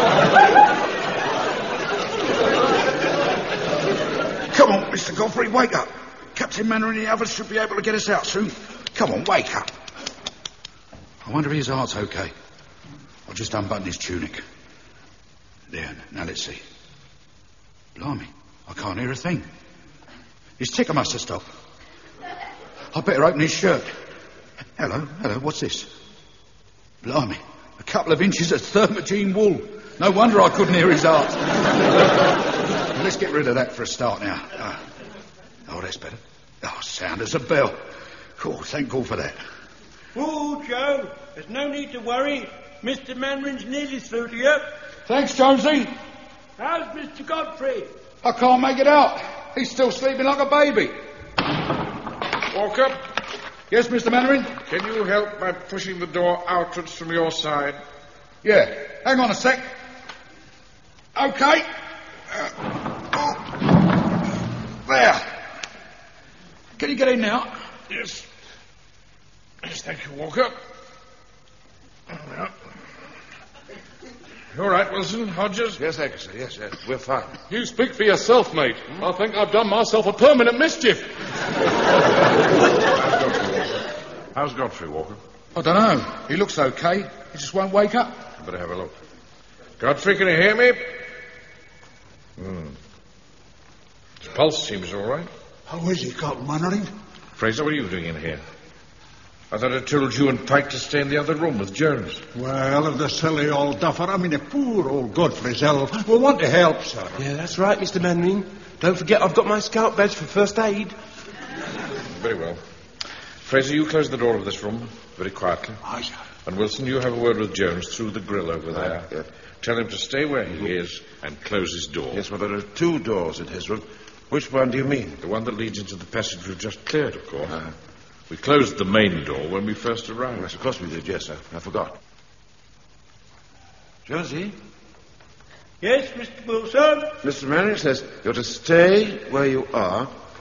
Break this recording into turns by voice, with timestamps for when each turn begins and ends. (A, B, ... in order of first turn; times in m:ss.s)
0:04.5-0:09.7 A
0:11.2-0:12.3 A
0:13.3-0:14.4 A
0:15.7-0:16.6 A
0:18.0-0:19.5 A
0:20.6-0:21.4 A
0:22.9-0:23.9 A
0:24.8-0:25.9 A
0:27.0-0:31.6 A
0:32.9-0:34.8 A
0:35.7-0:37.8 A
0:38.4-0:39.4 A
0:40.1-0:44.7 B
0:45.1-0:45.9 A
0:46.6-0:47.9 B
0:48.2-0:50.9 A
0:52.5-0:53.0 C
0:53.7-0:54.5 A
0:54.6-0:57.8 C
0:58.4-0:59.6 A
1:01.1-1:01.6 A
1:03.1-1:03.4 A
1:04.8-1:05.2 A
1:06.8-1:07.5 A
1:07.9-1:08.2 C
1:09.6-1:10.5 C
1:12.1-1:12.5 C
1:14.5-1:15.8 C
1:15.8-1:17.4 D
1:17.5-1:21.0 E
1:22.9-1:23.8 C
1:24.3-1:25.2 C
1:25.5-1:28.2 A
1:28.4-1:28.9 C
1:29.8-1:30.8 C
1:32.4-1:32.8 C
1:34.2-1:35.3 C
1:35.7-1:36.9 F
1:37.4-1:38.4 C
1:39.5-1:42.2 C
1:42.3-1:47.2 F
1:47.2-1:51.0 G
1:52.1-1:52.6 C
1:53.4-1:55.8 C
1:55.8-1:56.1 F
1:56.4-1:59.1 C
1:58.8-1:59.2 D
1:59.6-2:02.2 C
2:02.1-2:05.2 D
2:05.2-2:07.5 C
2:08.3-2:10.5 C
2:10.4-2:12.0 D
2:14.0-2:14.5 D
2:15.8-2:17.1 B
2:17.2-2:20.1 D